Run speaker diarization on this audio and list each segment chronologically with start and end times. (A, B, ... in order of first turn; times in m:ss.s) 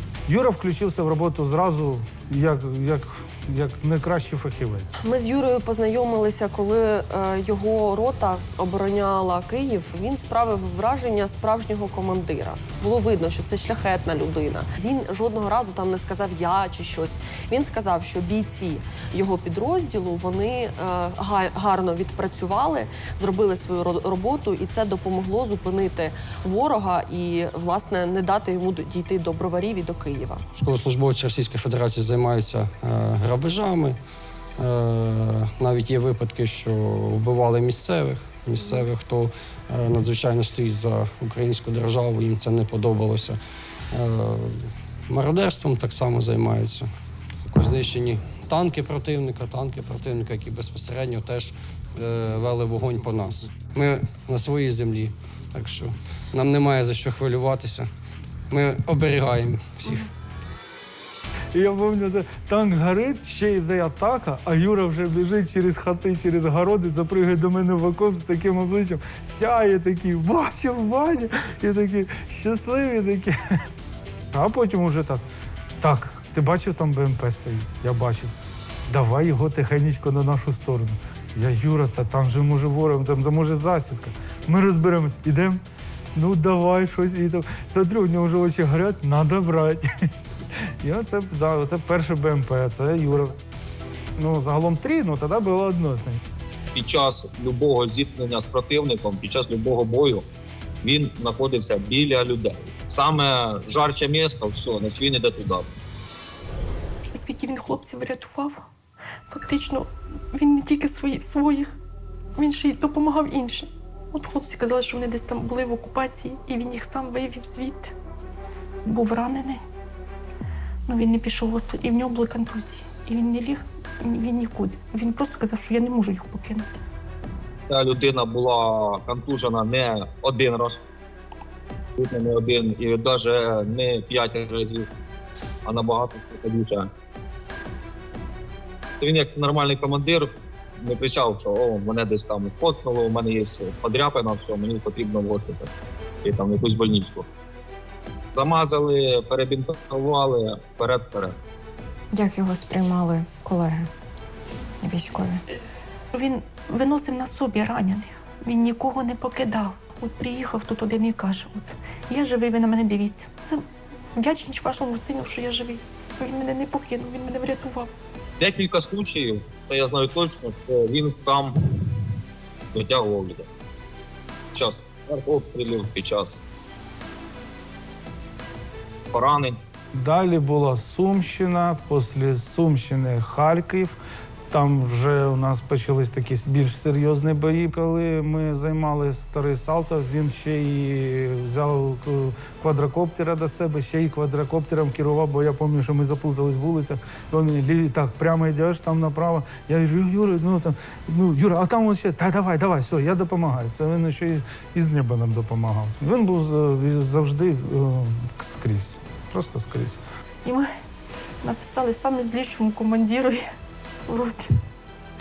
0:00.3-0:04.9 A
0:05.0-0:30.4 B
0:30.5-0:34.0 C
0:34.6-0:43.4 C
0:38.6-0:38.8 B
0:43.9-0:46.9 C
0:47.5-0:57.9 C
0:58.5-1:00.1 C
1:01.5-1:13.6 A
1:14.3-1:15.2 A
1:15.8-1:18.3 A
1:18.9-1:25.6 A
1:26.1-1:29.9 A
1:30.8-1:33.4 A
1:34.2-1:36.2 A
1:36.7-1:40.2 D
1:40.8-1:45.7 D
1:47.1-1:48.6 E
1:49.3-1:51.7 E
1:52.4-1:57.9 E
1:58.8-1:59.6 E
2:00.9-2:06.8 E
2:07.7-2:10.8 D
2:12.0-2:14.9 D
2:15.6-2:16.9 D
2:19.0-2:25.7 D
2:26.2-2:27.3 D
2:28.3-2:31.3 D
2:32.1-2:33.9 F
2:34.8-2:35.4 F
2:36.1-2:43.6 E
2:44.2-2:47.9 E
2:48.4-2:51.6 D
2:52.7-2:53.5 D
2:54.5-2:56.4 D
2:59.1-2:59.6 D
2:59.9-3:04.0 A
3:04.5-3:30.0 A
3:30.4-3:30.7 E
3:31.4-3:33.4 E
3:34.1-3:34.6 E